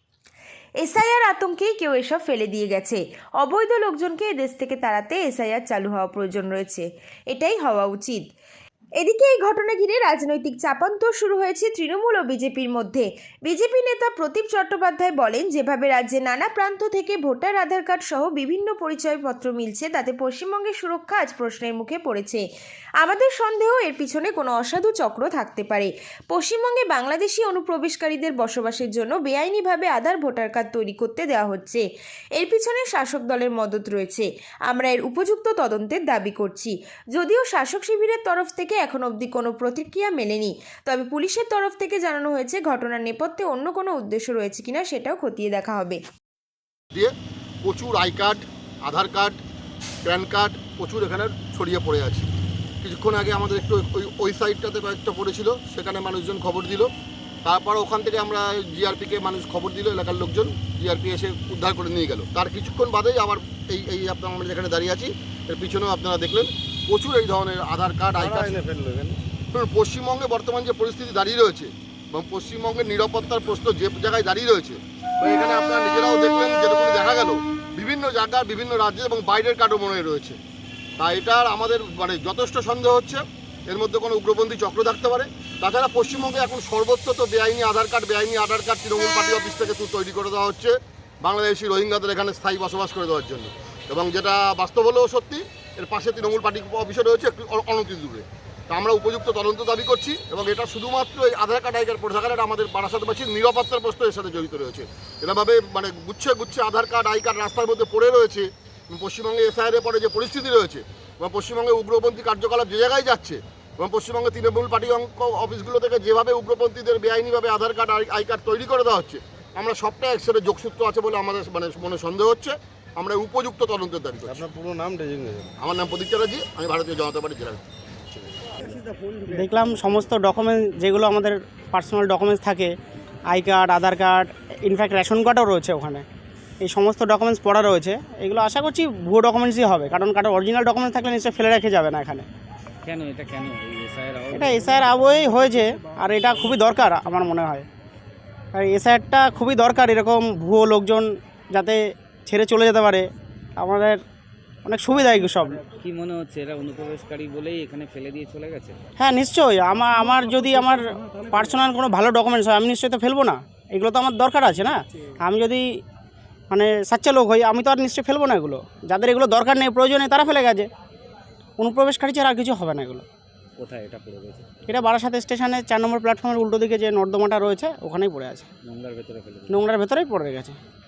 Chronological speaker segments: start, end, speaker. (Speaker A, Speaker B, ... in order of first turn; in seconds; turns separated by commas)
Speaker A: 0.8-8.2, Speaker A: 9.0-22.4, Speaker A: 23.0-31.8, Speaker A: 32.4-46.0, Speaker B: 46.9-49.4, Speaker B: 50.0-52.3, Speaker B: 52.8-56.9, Speaker B: 57.5-68.5, Speaker C: 68.2-69.2, Speaker B: 69.5-80.4, Speaker B: 81.0-124.4, Speaker C: 124.2-125.5, Speaker B: 125.6-127.6, Speaker C: 128.6-129.3, Speaker D: 129.3-132.7, Speaker D: 133.3-136.1, Speaker D: 136.6-142.3, Speaker E: 142.8-144.9, Speaker D: 144.3-147.7, Speaker D: 148.5-153.1, Speaker D: 153.6-154.0, Speaker D: 154.7-155.6, Speaker E: 155.7-158.8, Speaker D: 159.0-165.7, Speaker D: 166.5-170.7, Speaker D: 171.6-173.1, Speaker E: 173.6-174.5, Speaker D: 174.7-178.5, Speaker E: 178.6-179.7, Speaker D: 179.5-180.6